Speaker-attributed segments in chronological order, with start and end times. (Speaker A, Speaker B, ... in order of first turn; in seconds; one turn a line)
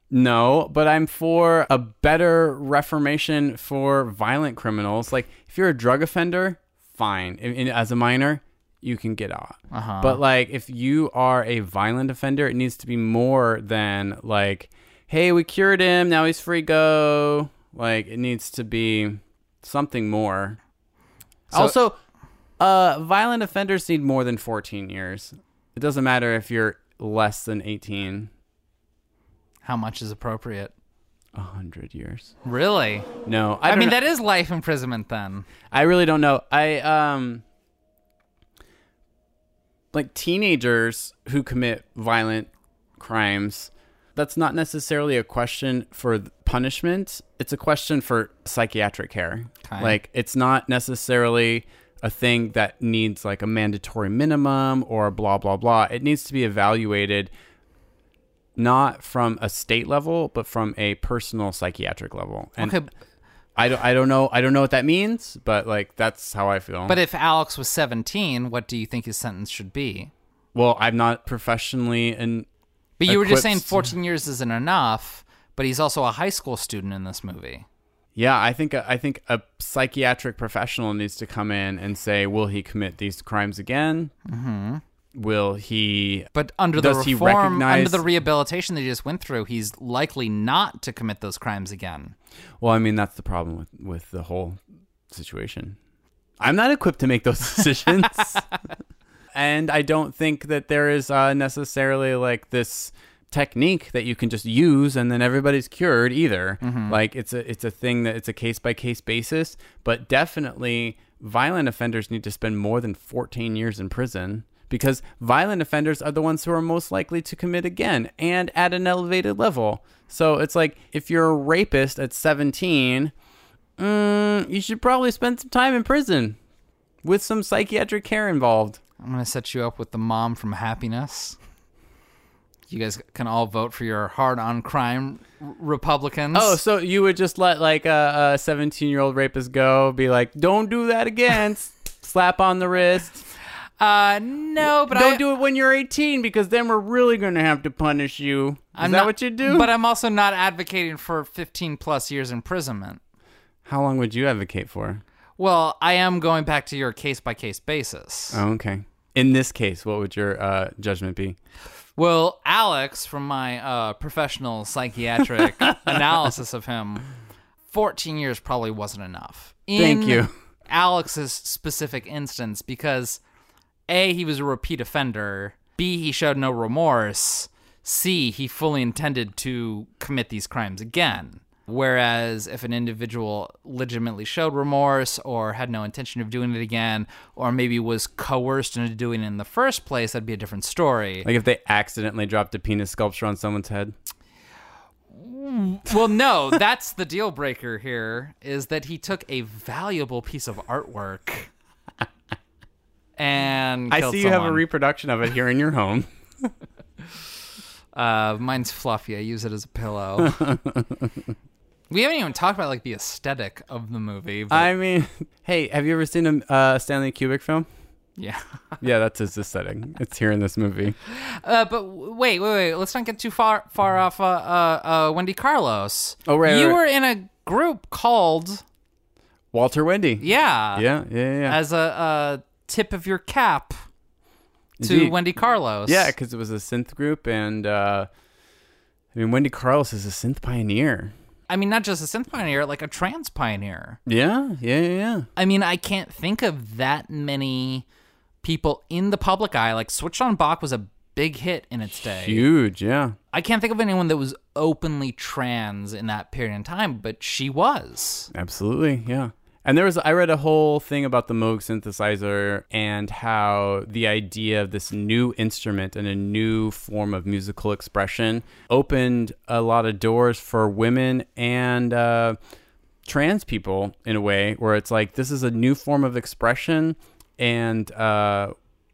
Speaker A: 0.1-20.6
Speaker B: 9.7-10.2
Speaker A: 21.5-22.0
Speaker A: 22.6-28.3
Speaker B: 29.6-30.7
Speaker A: 31.3-32.3
Speaker B: 32.4-33.1
Speaker A: 33.2-34.0
Speaker B: 33.6-35.5
Speaker A: 35.7-37.4
Speaker A: 39.9-57.3
Speaker B: 49.6-50.0
Speaker A: 58.5-62.8
Speaker B: 62.6-62.9
Speaker A: 63.5-67.0
Speaker B: 66.9-70.1
Speaker A: 70.5-72.5
Speaker B: 73.0-77.7
Speaker A: 73.0-73.9
Speaker A: 78.1-84.1
Speaker B: 84.3-84.8
Speaker A: 85.1-88.0
Speaker B: 86.3-92.1
Speaker A: 92.6-95.8
Speaker A: 96.4-98.4
Speaker A: 99.3-123.1
Speaker B: 106.6-107.0
Speaker A: 123.8-126.4
Speaker A: 127.0-128.8
Speaker B: 129.0-131.4
Speaker B: 132.7-136.6
Speaker A: 136.3-143.2
Speaker B: 143.8-145.2
Speaker A: 144.6-149.7
Speaker B: 148.8-153.0
Speaker A: 153.6-155.0
Speaker B: 155.4-158.4
Speaker A: 158.3-161.4
Speaker B: 161.9-167.1
Speaker A: 165.8-166.1
Speaker B: 167.7-173.2
Speaker A: 169.7-170.3
Speaker B: 173.9-191.3
Speaker A: 191.2-193.9
Speaker B: 195.1-201.5
Speaker B: 203.2-204.6
Speaker A: 203.9-206.5
Speaker B: 207.9-210.4
Speaker A: 210.2-211.1
Speaker B: 211.9-214.7
Speaker A: 214.5-217.7
Speaker B: 218.2-218.4
Speaker A: 218.8-221.0
Speaker B: 221.1-228.6
Speaker A: 226.2-226.8
Speaker A: 229.5-231.6
Speaker B: 230.2-230.9
Speaker B: 231.5-233.8
Speaker A: 234.8-235.2
Speaker B: 234.8-236.1
Speaker A: 235.8-238.1
Speaker A: 239.1-241.1
Speaker B: 241.5-244.0
Speaker A: 244.1-245.3
Speaker B: 245.3-247.8
Speaker B: 248.4-252.5
Speaker A: 252.0-253.2
Speaker B: 253.3-258.3
Speaker A: 258.3-272.4
Speaker A: 273.0-278.5